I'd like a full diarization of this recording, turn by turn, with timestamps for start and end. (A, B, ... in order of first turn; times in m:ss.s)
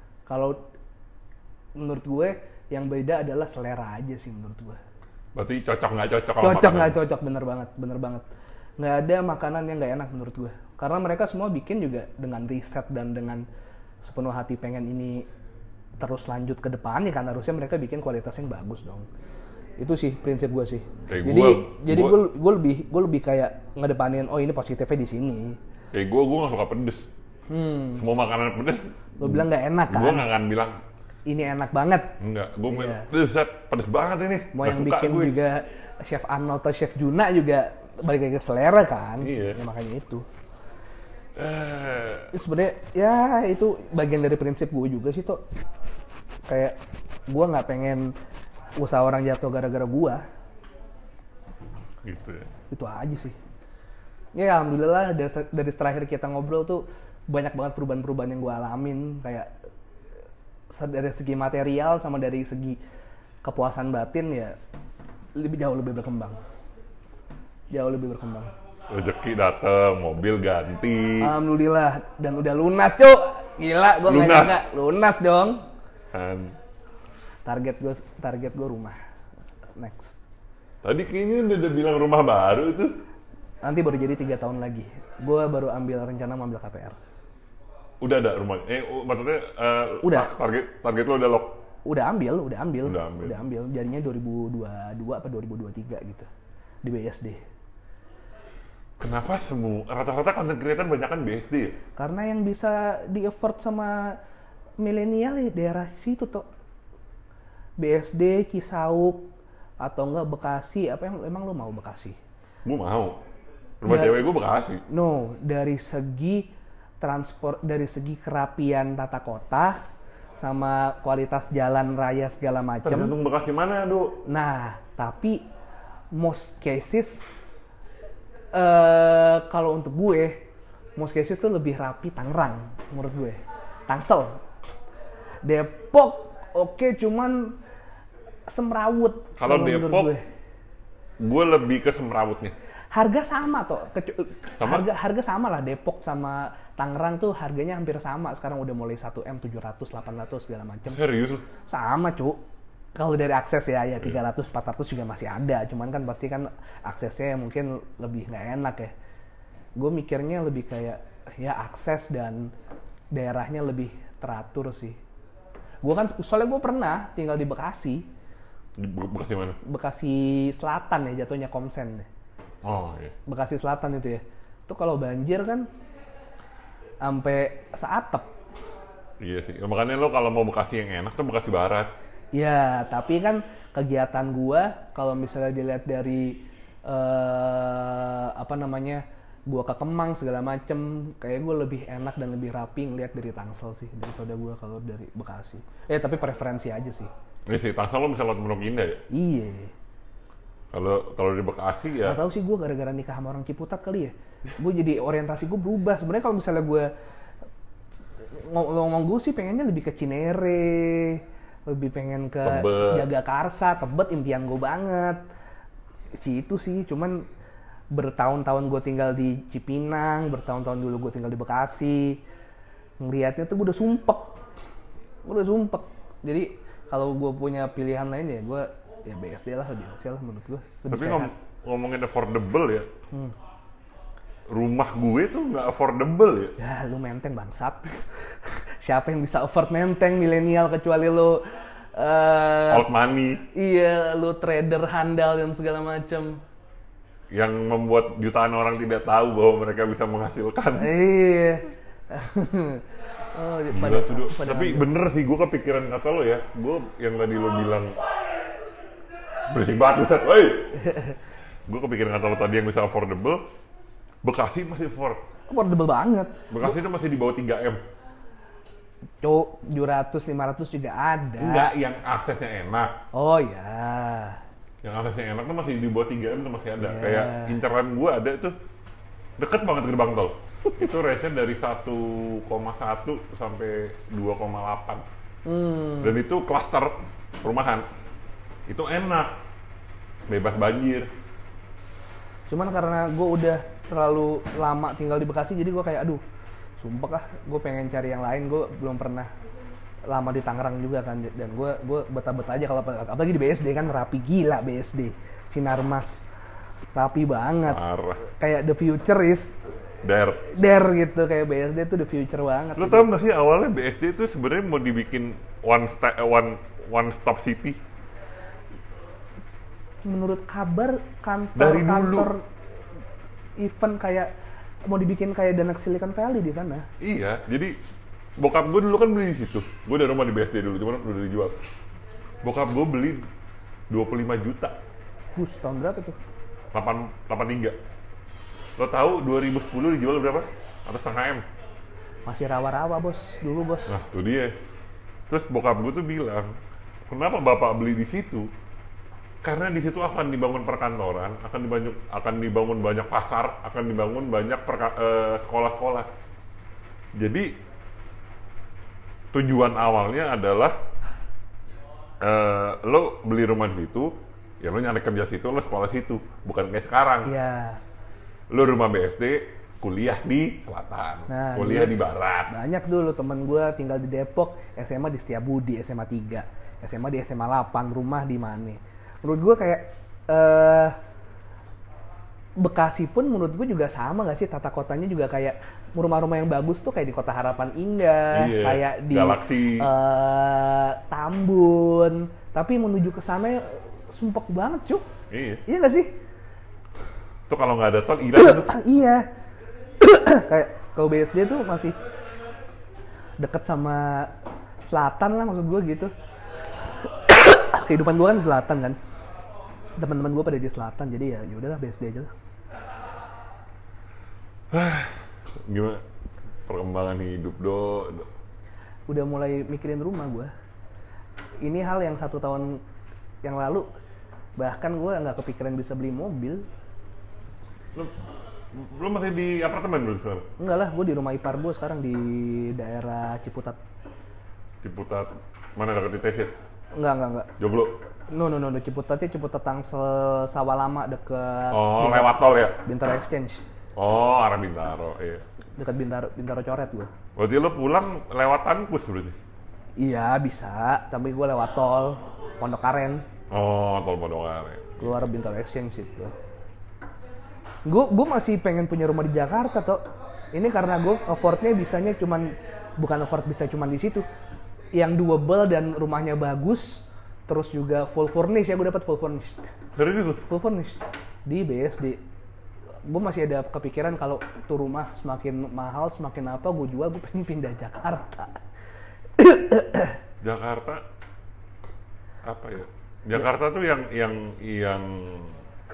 0:00.3-0:00.6 A
0:01.8-0:04.8 A
0:05.3-0:07.0 B
0:06.4-0:08.2 A
0:08.8-0:13.4 A
0:14.0-0:15.3 A
0:16.0-0:19.1 A
0:19.8-0:25.6 A
0:21.0-0:22.2 B
0:25.9-0:27.1 B
0:27.5-0:28.0 A
0:27.9-0:30.8 B
0:29.2-0:30.3 A
0:31.3-0:32.1 A
0:32.2-0:35.3 B
0:32.7-0:33.0 A
0:34.5-0:40.2 A
0:39.2-0:39.6 B
0:41.4-0:42.3 B
0:42.3-0:45.4 A
0:46.5-0:46.8 A
0:47.3-0:48.1 A
0:48.8-0:50.2 A
0:52.0-0:52.5 B
0:52.7-0:53.4 A
0:54.3-0:59.5 A
1:00.7-1:02.8 A
1:03.4-1:04.6 A
1:05.3-1:06.4 A
1:07.7-1:08.5 A
1:08.9-1:11.3 B
1:11.2-1:15.6 A
1:14.1-1:14.6 B
1:16.1-1:16.6 B
1:17.4-1:19.0 A
1:19.8-1:20.2 A
1:20.8-1:22.9 B
1:23.6-1:27.0 A
1:28.0-1:31.6 B
1:30.0-1:30.3 A
1:31.8-1:36.3 A
1:32.8-1:33.3 B
1:36.8-1:37.4 A
1:39.0-1:41.8 B
1:42.0-1:44.2 A
1:44.8-1:46.4 A
1:47.8-1:49.3 A
1:49.8-1:52.2 A
1:52.6-1:53.2 B
1:53.8-1:54.8 B
1:53.8-1:54.2 A
1:54.9-1:59.8 A
2:00.4-2:03.1 A
2:02.8-2:04.2 B
2:04.2-2:05.4 A
2:06.1-2:07.3 A
2:08.5-2:10.4 A
2:11.0-2:14.4 A
2:15.4-2:17.6 A
2:18.5-2:20.2 A
2:19.4-2:20.1 B
2:21.2-2:22.5 B
2:22.9-2:31.0 A
2:24.6-2:24.9 B
2:30.9-2:31.4 B
2:31.7-2:32.4 A
2:32.9-2:38.9 A
2:39.8-2:42.5 A
2:43.1-2:45.0 A
2:45.8-2:48.1 A
2:48.8-2:49.6 B
2:49.6-2:52.1 A
2:52.6-2:53.1 B
2:53.2-2:55.7 A
2:57.0-2:58.3 A
2:59.2-3:01.9 B
3:02.3-3:17.1 A
3:17.5-3:19.0 B
3:19.1-3:19.7 A
3:20.7-3:22.2 B
3:22.0-3:26.9 A
3:28.3-3:35.2 A
3:32.4-3:33.1 B
3:36.1-3:37.2 A
3:37.9-3:42.2 A
3:43.0-3:44.4 A
3:45.2-3:51.3 A
3:50.9-3:52.9 B
3:54.5-3:56.5 B
3:56.6-4:01.4 A
4:01.9-4:02.9 A
4:02.7-4:03.4 B
4:03.5-4:06.4 A
4:07.3-4:10.9 B
4:10.8-4:14.9 A
4:13.7-4:18.0 B
4:19.5-4:20.8 B
4:20.8-4:21.2 A
4:21.7-4:23.4 B
4:24.2-4:25.2 B
4:25.5-4:26.7 A
4:26.5-4:27.8 B
4:29.2-4:31.7 A
4:31.4-4:33.0 B
4:33.1-4:34.4 A
4:34.8-4:38.6 B
4:36.8-4:37.5 A
4:39.4-4:45.0 B
4:45.4-4:46.2 A
4:46.0-4:47.8 B
4:48.7-4:49.4 B
4:50.3-4:51.1 B
4:52.5-4:56.2 A
4:56.8-4:59.3 A
5:00.0-5:06.2 A
5:06.9-5:09.6 A
5:07.6-5:08.2 B
5:10.0-5:10.5 B
5:10.4-5:13.1 A
5:12.8-5:17.8 B
5:20.0-5:22.4 A
5:21.6-5:22.3 B
5:23.6-5:24.3 A
5:24.8-5:26.9 A
5:27.0-5:27.7 B
5:28.4-5:31.5 B
5:32.4-5:33.2 B
5:33.9-5:34.8 B
5:35.4-5:36.2 A
5:36.7-5:37.8 B
5:38.8-5:41.4 B
5:42.2-5:44.0 A
5:43.9-5:44.5 B
5:45.3-5:46.5 B
5:47.1-5:48.5 B
5:49.4-5:56.1 B
5:57.2-5:57.5 B
5:59.3-6:00.8 B
6:02.2-6:07.3 B
6:07.2-6:07.8 A
6:08.5-6:12.5 B
6:11.3-6:21.0 A
6:22.6-6:35.0 A
6:28.3-6:29.9 B
6:35.3-6:35.6 B
6:35.6-6:36.1 A
6:37.5-6:38.8 B
6:38.4-6:39.3 A
6:40.0-6:41.9 A
6:43.4-6:46.1 A
6:46.8-6:49.0 A
6:50.0-6:52.3 A
6:54.7-6:56.0 B
6:56.7-6:58.3 B
6:59.1-7:00.5 A
7:01.6-7:02.8 A
7:03.4-7:03.9 A
7:04.6-7:06.6 A
7:08.7-7:10.5 B
7:10.6-7:13.8 A
7:14.8-7:16.5 B
7:16.9-7:17.5 A
7:17.6-7:18.0 B
7:18.3-7:23.6 A
7:21.7-7:22.8 B
7:24.0-7:25.4 B
7:25.8-7:27.1 A
7:27.4-7:29.4 B
7:30.0-7:33.2 A
7:33.5-7:35.1 B
7:35.0-7:36.3 A
7:37.8-7:44.2 A
7:44.9-7:49.6 A
7:49.9-7:50.4 B
7:50.5-7:52.2 A
7:53.0-7:58.6 A
7:59.4-8:00.2 A
8:00.4-8:01.0 B
8:02.4-8:05.6 B